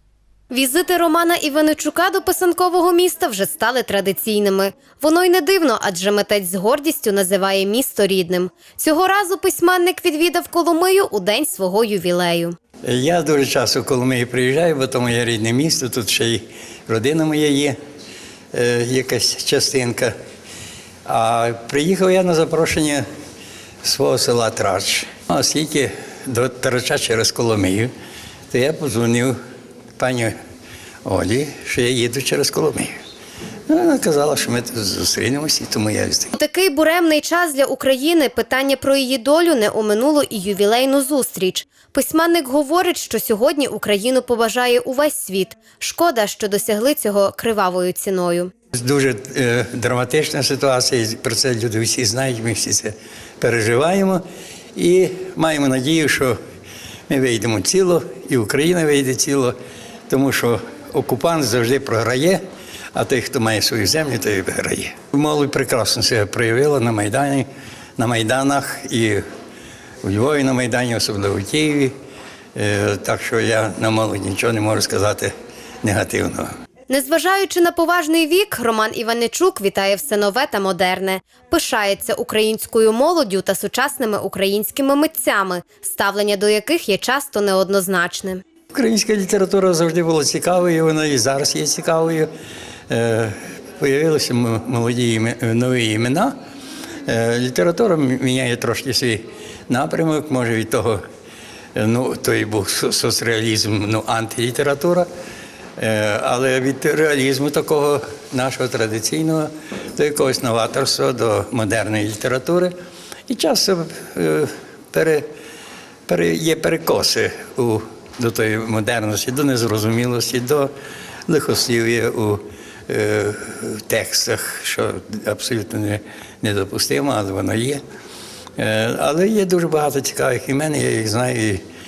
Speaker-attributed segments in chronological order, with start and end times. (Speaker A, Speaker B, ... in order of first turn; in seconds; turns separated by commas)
Speaker A: 0.5-12.6, Speaker B: 12.8-17.8, Speaker B: 18.5-20.1, Speaker B: 21.1-23.1, Speaker B: 23.8-27.9, Speaker B: 28.5-29.4, Speaker B: 30.0-30.3, Speaker B: 31.1-33.0, Speaker B: 33.7-36.3, Speaker A: 36.4-48.5, Speaker B: 48.7-54.2, Speaker B: 54.8-56.4, Speaker B: 57.1-59.5, Speaker B: 60.1-62.4, Speaker B: 62.9-69.2, Speaker B: 70.0-71.9, Speaker B: 72.5-75.3, Speaker B: 75.8-76.5, Speaker A: 76.9-88.4, Speaker B: 88.7-92.3, Speaker B: 92.9-96.3, Speaker B: 97.1-101.0, Speaker B: 101.8-105.1, Speaker B: 105.8-112.7, Speaker B: 113.3-115.3, Speaker B: 116.1-120.7, Speaker B: 121.3-127.8, Speaker B: 128.6-131.6